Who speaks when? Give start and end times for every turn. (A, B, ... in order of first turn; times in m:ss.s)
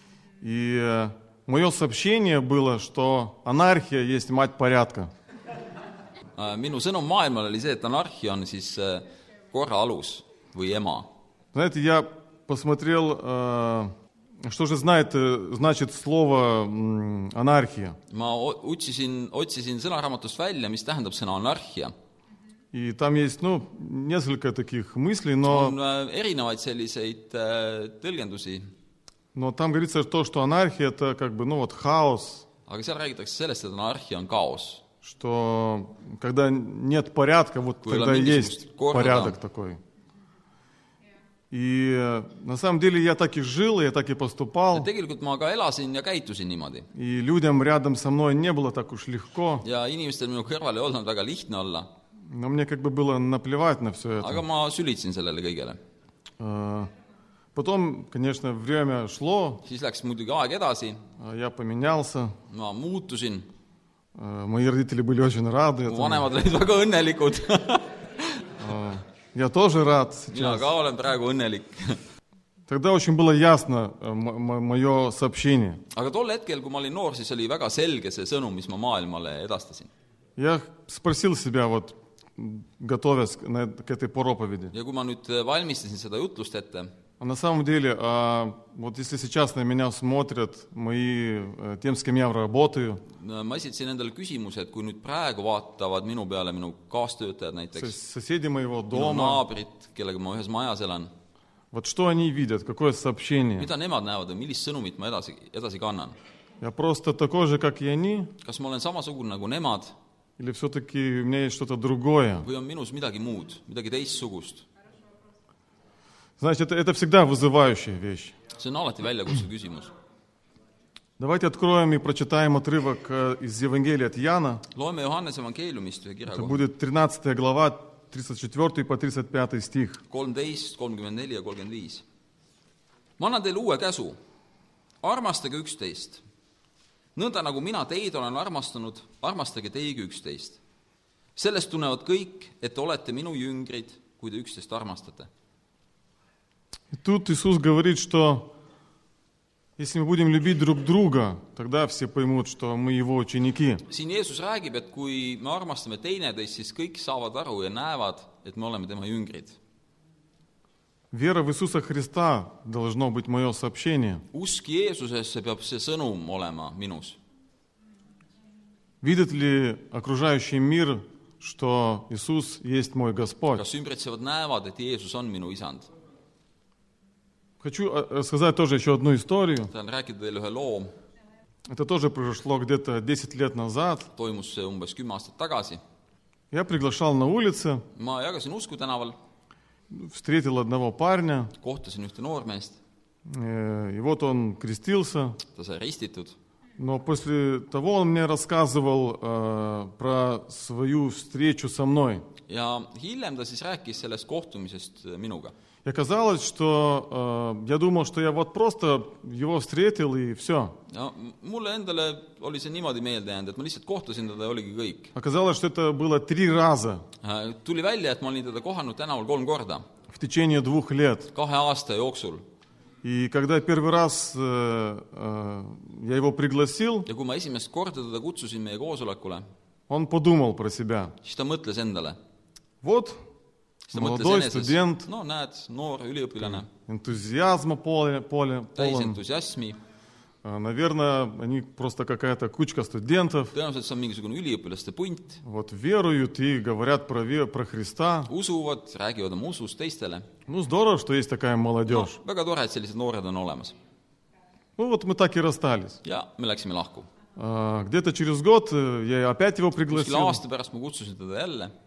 0:00.4-0:05.1 A
0:06.4-0:11.1 B
0:11.5-0:13.9 A
0:14.4-0:18.0 A
0:18.1-0:21.9 B
0:22.7-0:25.8 A
0:25.5-0:28.7 B
0:29.4-0:32.5 A
0:32.7-0:34.8 B
0:35.0-0:39.8 A
0:37.8-0:39.4 B
0:41.5-0:44.9 A
0:44.7-0:46.9 B
0:46.9-0:49.6 A
0:49.6-0:51.9 B
0:52.3-0:54.4 A
0:54.2-0:55.8 B
0:56.4-0:56.9 A
0:57.5-0:59.6 A
0:59.6-1:01.0 B
1:01.2-1:02.4 A
1:02.5-1:03.5 B
1:04.2-1:06.3 A
1:05.9-1:08.4 B
1:08.6-1:10.7 A
1:10.3-1:12.0 B
1:12.7-1:15.8 A
1:15.9-1:19.9 B
1:20.4-1:24.7 A
1:24.7-1:26.9 B
1:27.2-1:33.0 A
1:33.1-1:37.9 B
1:37.8-1:39.4 A
1:38.9-1:41.1 B
1:41.7-1:43.7 A
1:43.6-1:46.2 B
1:46.6-1:48.3 A
1:48.4-1:49.9 B
1:50.4-1:52.5 A
1:52.4-1:54.7 B
1:56.4-1:58.4 A
1:58.6-1:59.9 B
2:01.2-2:04.6 A
2:04.7-2:06.6 B
2:06.3-2:10.0 A
2:10.1-2:12.0 B
2:13.2-2:14.2 B
2:15.0-2:16.2 B
2:17.2-2:20.6 B
2:21.4-2:25.3 B
2:26.9-2:28.5 A
2:29.8-2:33.8 A
2:33.9-2:39.6 B
2:41.1-2:44.2 A
2:44.3-2:47.2 B
2:49.0-2:53.6 A
2:53.6-2:55.9 B
2:57.6-2:59.7 A
2:59.7-3:00.9 B
3:01.7-3:04.1 A
3:04.2-3:05.8 B
3:06.5-3:07.8 A
3:08.0-3:09.2 B
3:09.9-3:11.5 A
3:11.6-3:12.8 B
3:13.3-3:15.4 A
3:15.5-3:16.4 B
3:16.8-3:22.3 A
3:22.5-3:25.5 B
3:25.8-3:30.8 A
3:30.9-3:35.1 B
3:35.2-3:37.0 A
3:37.2-3:39.8 B
3:40.1-3:41.3 A
3:41.4-3:42.4 B
3:43.0-3:47.1 A
3:47.1-3:49.4 B
3:49.9-3:51.2 A
3:51.2-3:52.2 B
3:52.8-3:53.2 A
3:53.9-3:56.7 B
3:53.9-3:55.1 A
3:56.9-3:59.2 A
3:58.8-3:59.8 B
4:00.4-4:03.5 A
4:03.5-4:05.4 B
4:05.4-4:08.3 A
4:08.3-4:10.3 B
4:10.5-4:12.2 A
4:11.9-4:13.8 B
4:14.8-4:16.0 A
4:16.0-4:17.1 B
4:17.4-4:20.4 A
4:19.9-4:21.7 B